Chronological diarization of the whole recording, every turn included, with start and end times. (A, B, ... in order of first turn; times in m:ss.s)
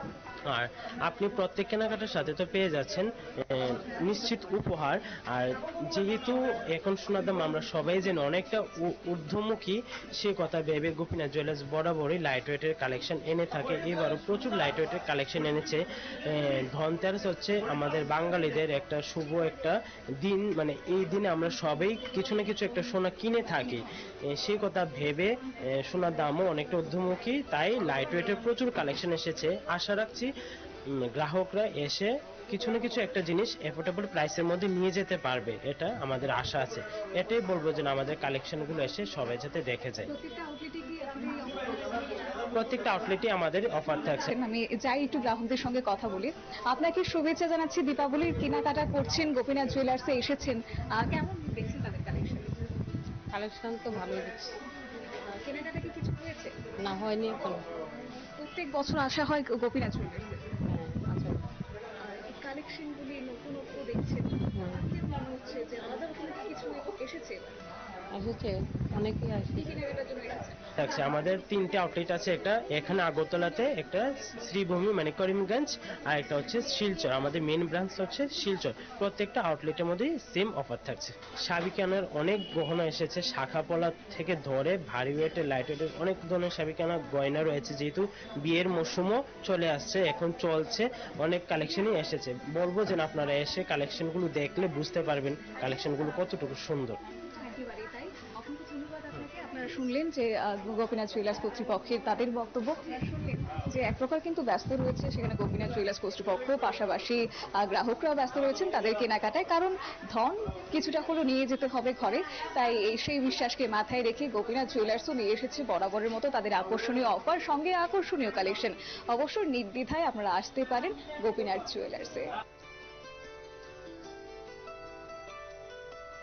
0:00.5-0:30.3 A
0:31.2-0:40.1 A
0:40.1-0:42.2 B
0:42.5-0:44.3 A
0:44.3-0:52.5 B
0:53.3-0:54.6 C
0:55.4-0:56.5 B
0:56.8-0:57.6 C
0:58.4-1:00.6 B
1:00.7-1:01.4 C
1:02.0-1:07.6 B
1:08.2-1:09.6 C
1:09.5-1:10.7 B
1:10.8-1:37.0 A
1:37.4-2:02.3 B